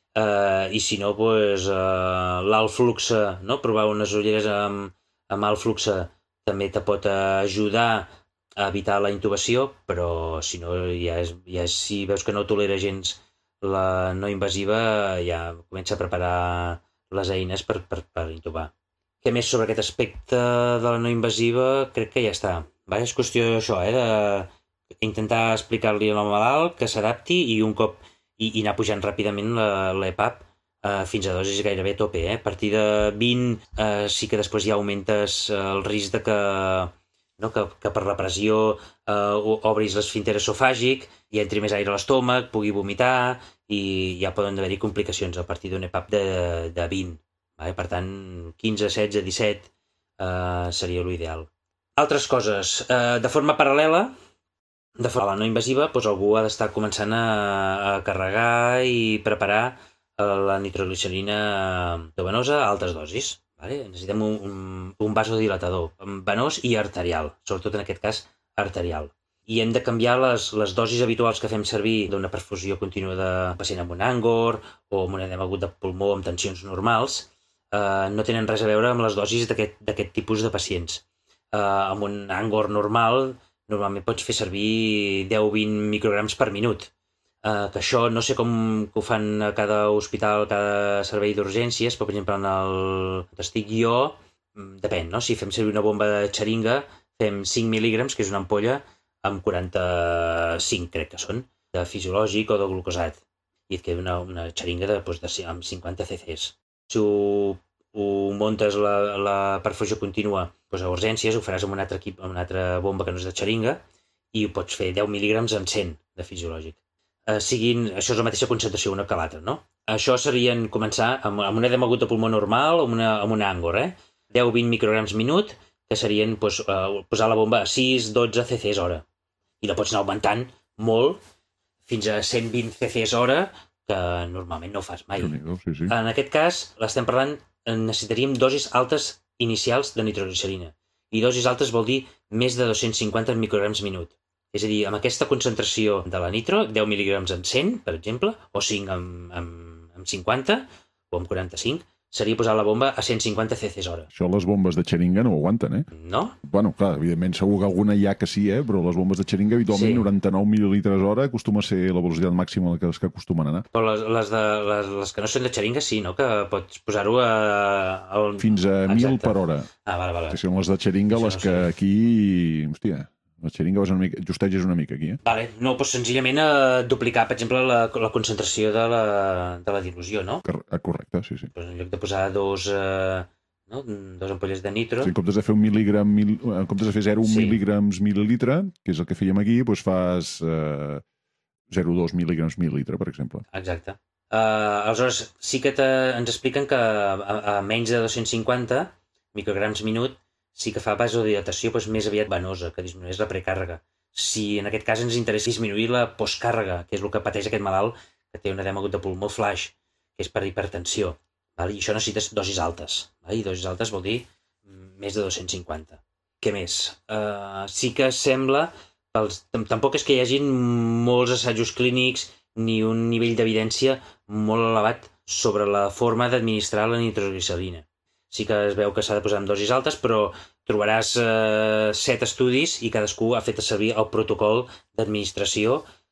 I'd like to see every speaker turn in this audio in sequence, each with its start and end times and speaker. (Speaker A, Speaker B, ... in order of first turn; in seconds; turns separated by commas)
Speaker A: 0.1-24.5, Speaker A: 25.0-54.1, Speaker A: 55.0-86.9, Speaker A: 87.4-113.8, Speaker A: 114.3-129.0, Speaker A: 129.6-131.2, Speaker A: 131.9-154.1, Speaker B: 135.1-135.9, Speaker B: 154.1-155.9, Speaker A: 155.9-156.4, Speaker B: 156.4-163.7, Speaker A: 159.7-160.1, Speaker A: 163.7-170.4, Speaker B: 168.4-169.7, Speaker B: 170.3-175.2, Speaker A: 171.1-171.7, Speaker A: 175.2-180.4, Speaker B: 180.4-181.5, Speaker A: 181.5-185.1, Speaker B: 185.0-191.0, Speaker A: 187.2-187.6, Speaker B: 191.7-193.4, Speaker A: 193.5-235.8